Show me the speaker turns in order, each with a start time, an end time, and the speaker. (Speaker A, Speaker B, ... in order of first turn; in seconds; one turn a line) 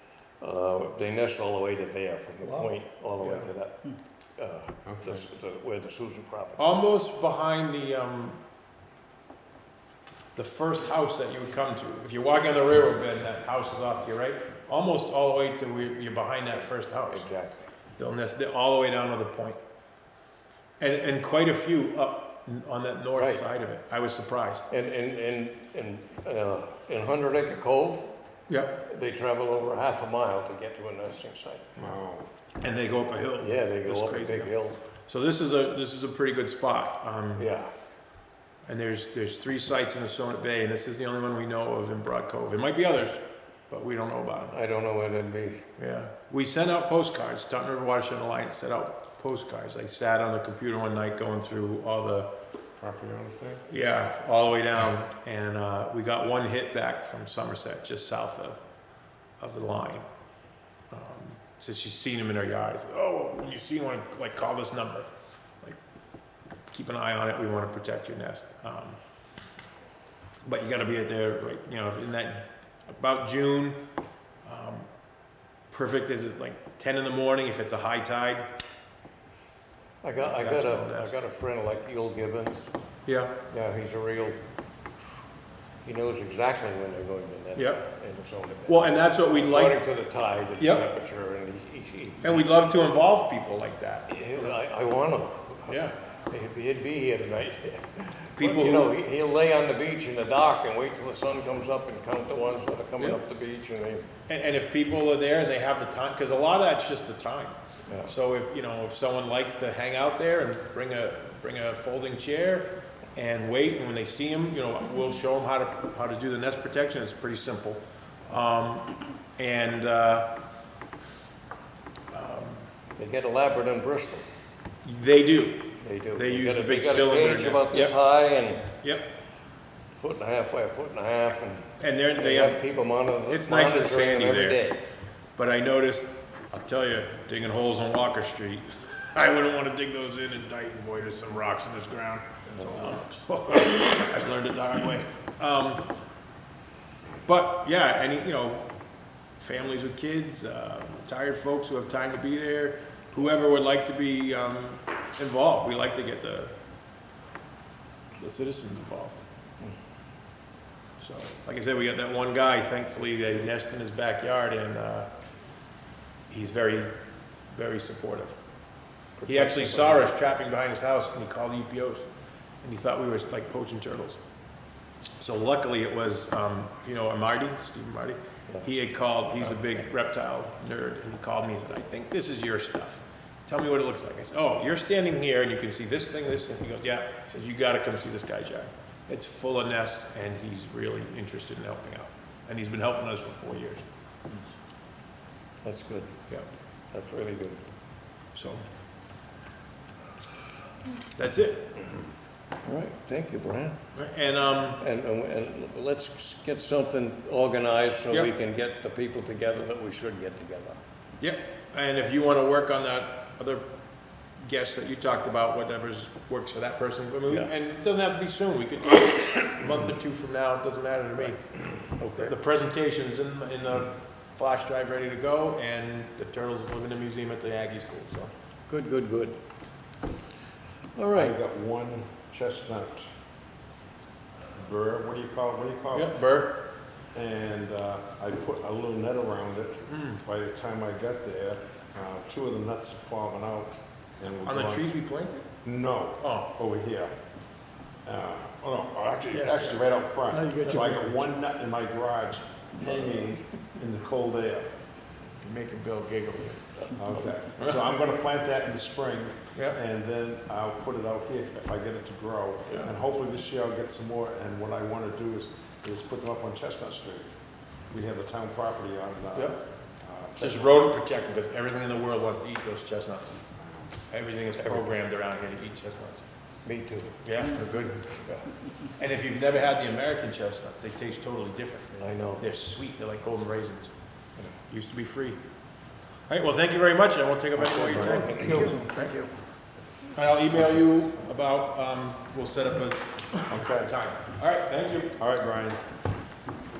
Speaker A: 0.4-6.7
Speaker B: 3.2-3.5
Speaker C: 4.8-5.2
Speaker B: 6.6-8.4
Speaker B: 10.4-17.2
Speaker A: 17.1-17.7
Speaker B: 18.0-19.6
Speaker B: 20.8-24.6
Speaker A: 23.2-23.4
Speaker A: 24.7-28.1
Speaker B: 28.5-28.8
Speaker A: 28.8-31.7
Speaker C: 31.8-32.3
Speaker B: 32.6-34.5
Speaker A: 33.4-34.8
Speaker B: 35.1-37.5
Speaker A: 37.4-37.7
Speaker B: 38.7-44.5
Speaker A: 44.5-45.6
Speaker B: 45.8-52.3
Speaker C: 52.8-53.6
Speaker B: 53.7-58.6
Speaker B: 59.4-60.1
Speaker B: 60.9-65.1
Speaker B: 66.7-69.0
Speaker B: 70.5-73.8
Speaker B: 74.4-74.9
Speaker B: 75.7-78.5
Speaker A: 80.0-82.7
Speaker B: 80.2-81.2
Speaker B: 83.1-83.4
Speaker A: 83.5-84.4
Speaker A: 85.8-92.4
Speaker B: 87.6-87.8
Speaker B: 88.7-89.8
Speaker B: 90.6-90.9
Speaker B: 92.2-94.5
Speaker A: 94.1-95.8
Speaker B: 95.7-96.0
Speaker A: 96.3-104.1
Speaker B: 98.4-98.9
Speaker B: 104.3-120.4
Speaker B: 122.1-122.7
Speaker A: 123.0-124.3
Speaker B: 124.8-128.0
Speaker A: 125.8-128.7
Speaker B: 128.8-129.1
Speaker A: 129.9-134.8
Speaker B: 131.8-132.6
Speaker B: 133.3-134.6
Speaker B: 135.3-145.9
Speaker A: 142.5-143.0
Speaker B: 147.2-148.7
Speaker B: 149.4-156.5
Speaker B: 158.2-159.2
Speaker B: 161.0-165.1
Speaker B: 166.3-166.9
Speaker B: 167.5-168.4
Speaker A: 169.2-170.1
Speaker B: 169.2-172.1
Speaker B: 172.6-174.2
Speaker B: 175.2-193.8
Speaker A: 195.6-196.1
Speaker A: 196.9-197.6
Speaker B: 198.3-198.6
Speaker B: 201.2-201.8
Speaker A: 202.6-203.8
Speaker B: 203.9-204.8
Speaker A: 204.8-210.8
Speaker B: 211.2-213.7
Speaker B: 214.4-221.4
Speaker A: 222.0-222.3
Speaker B: 222.1-228.3
Speaker A: 228.7-229.4
Speaker A: 231.0-231.3
Speaker C: 231.1-233.1
Speaker C: 234.6-236.2
Speaker B: 235.9-236.6
Speaker C: 237.1-244.9
Speaker B: 239.9-240.2
Speaker B: 244.4-245.5
Speaker C: 245.6-247.1
Speaker B: 246.2-246.5
Speaker C: 248.1-254.7
Speaker D: 249.3-249.8
Speaker D: 250.3-251.1
Speaker B: 255.4-256.9
Speaker C: 256.9-267.3
Speaker B: 257.6-257.8
Speaker C: 267.9-270.8
Speaker B: 270.4-273.4
Speaker C: 273.6-273.9
Speaker B: 274.1-276.3
Speaker A: 274.6-274.9
Speaker A: 276.6-277.2
Speaker B: 277.2-278.2
Speaker B: 279.0-283.9
Speaker A: 282.0-282.4
Speaker B: 284.7-285.4
Speaker B: 286.3-289.1
Speaker A: 287.6-288.8
Speaker D: 288.0-289.3
Speaker B: 290.1-295.1
Speaker C: 293.5-293.9
Speaker C: 295.2-295.8